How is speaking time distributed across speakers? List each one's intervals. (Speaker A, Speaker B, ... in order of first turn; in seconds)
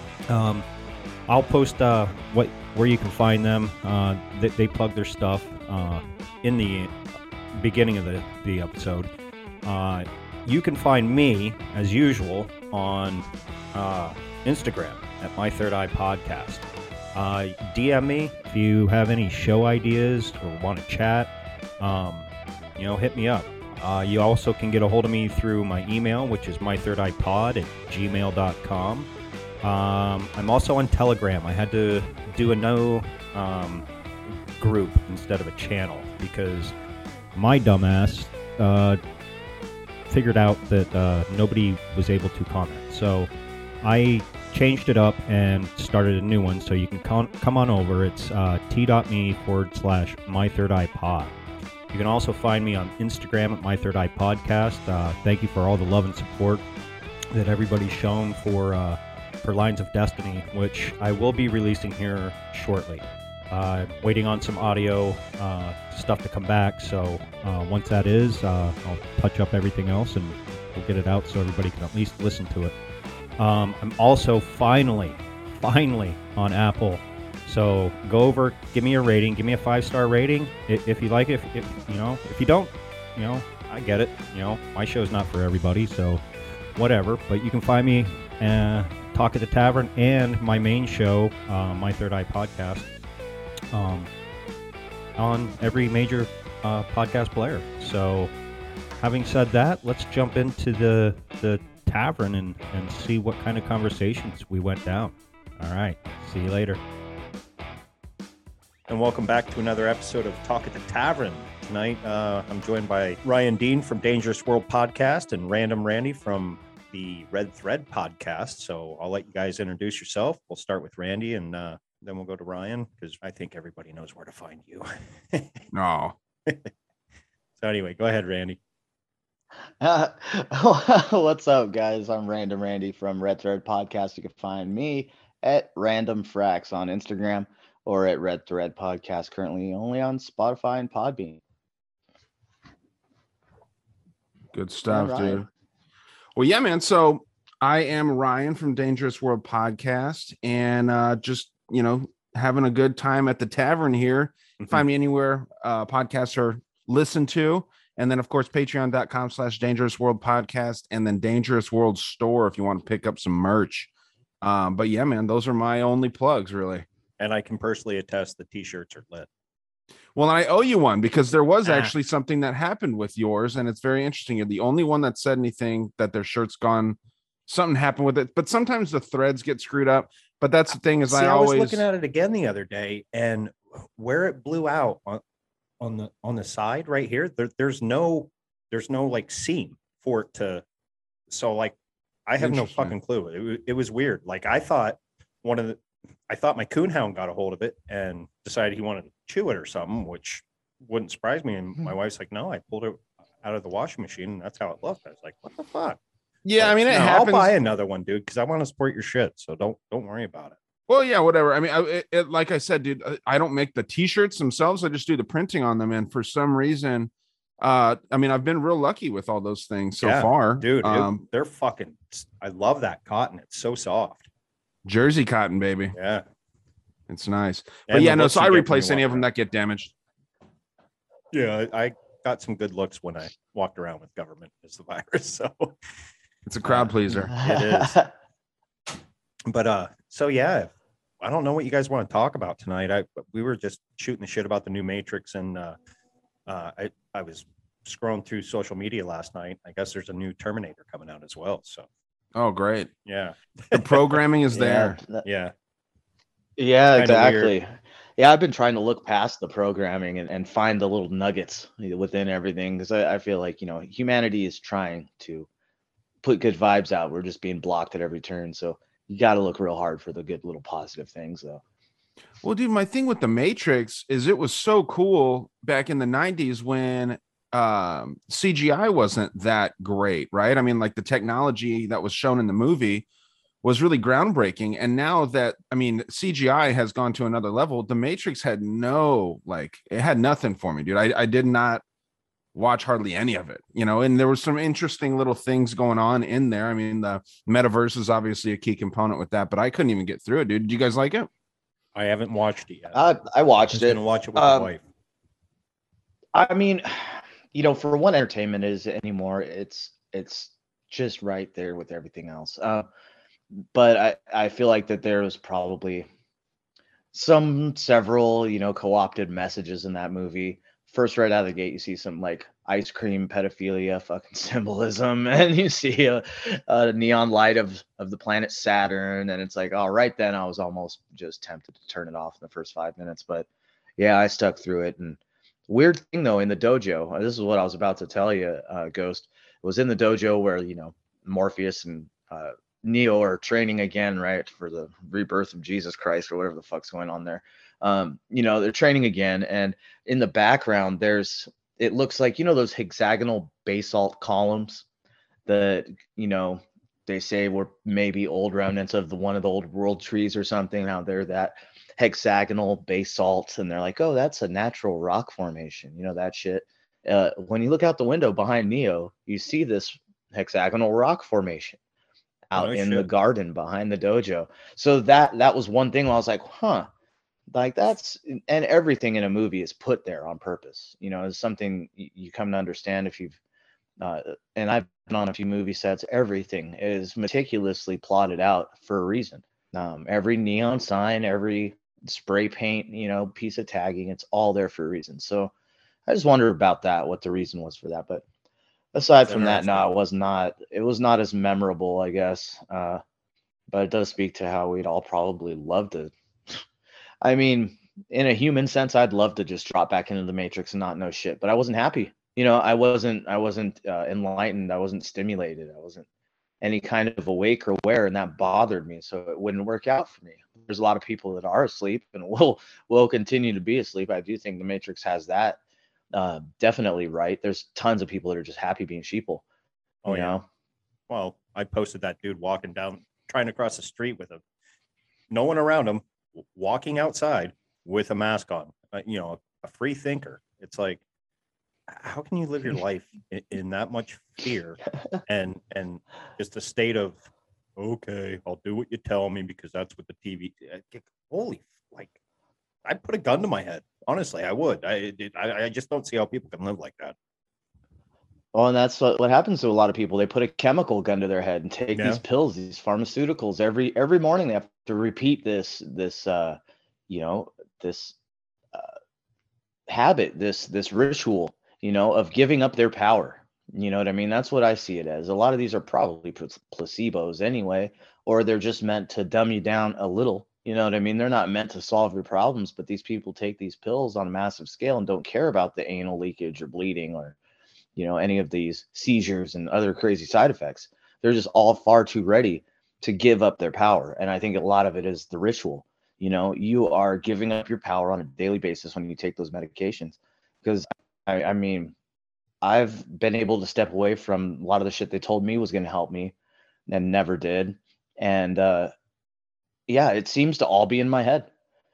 Speaker A: 0.3-0.7, 1.3-7.0, 7.5-9.1, 9.7-29.1, 29.6-33.9, 34.6-36.8, 37.3-39.0, 40.1-43.3, 43.8-51.4, 51.9-56.6, 57.3-72.8, 73.4-86.2, 86.8-92.9, 93.7-94.1, 95.2-98.3, 99.0-106.8, 108.9-125.6, 127.6-128.6, 154.6-154.8, 167.2-169.3, 171.7-171.9, 181.1-185.2, 185.8-190.6, 191.3-191.8, 192.3-206.0, 206.6-210.6, 220.0-224.3, 225.9-226.2, 227.9-229.3, 231.3-235.8, 236.6-238.0, 239.5-245.8, 246.5-251.9, 253.1-254.2, 255.2-255.5, 257.0-257.5, 301.9-303.0, 303.7-304.8, 372.6-373.1, 399.3-399.9, 430.0-430.4, 431.1-434.4, 435.3-441.0, 441.9-447.2, 447.8-452.1, 452.9-457.1, 461.9-462.2
Speaker B: 125.7-126.2, 144.5-145.4, 146.3-163.9, 164.4-166.9, 170.2-181.8, 192.4-192.9, 206.4-207.5, 210.9-221.2, 224.8-225.9, 227.1-229.9, 236.5-237.3, 252.4-252.9, 253.7-255.0, 272.4-283.1, 283.6-291.8, 292.6-301.3
Speaker C: 129.8-141.4, 144.9-145.5, 237.3-238.1, 254.5-255.2, 256.6-265.5, 266.2-271.6, 302.9-304.7, 306.3-312.9, 313.5-316.1, 317.1-354.9, 355.5-371.8, 372.5-376.9, 377.5-383.4, 384.0-395.5, 396.1-398.2, 398.9-403.0, 403.7-406.6, 407.2-416.1, 416.6-425.6, 426.1-429.4, 430.1-430.4, 458.5-466.6, 467.1-468.1, 469.9-487.4, 488.0-501.9, 502.6-506.3, 506.9-508.9, 509.9-511.5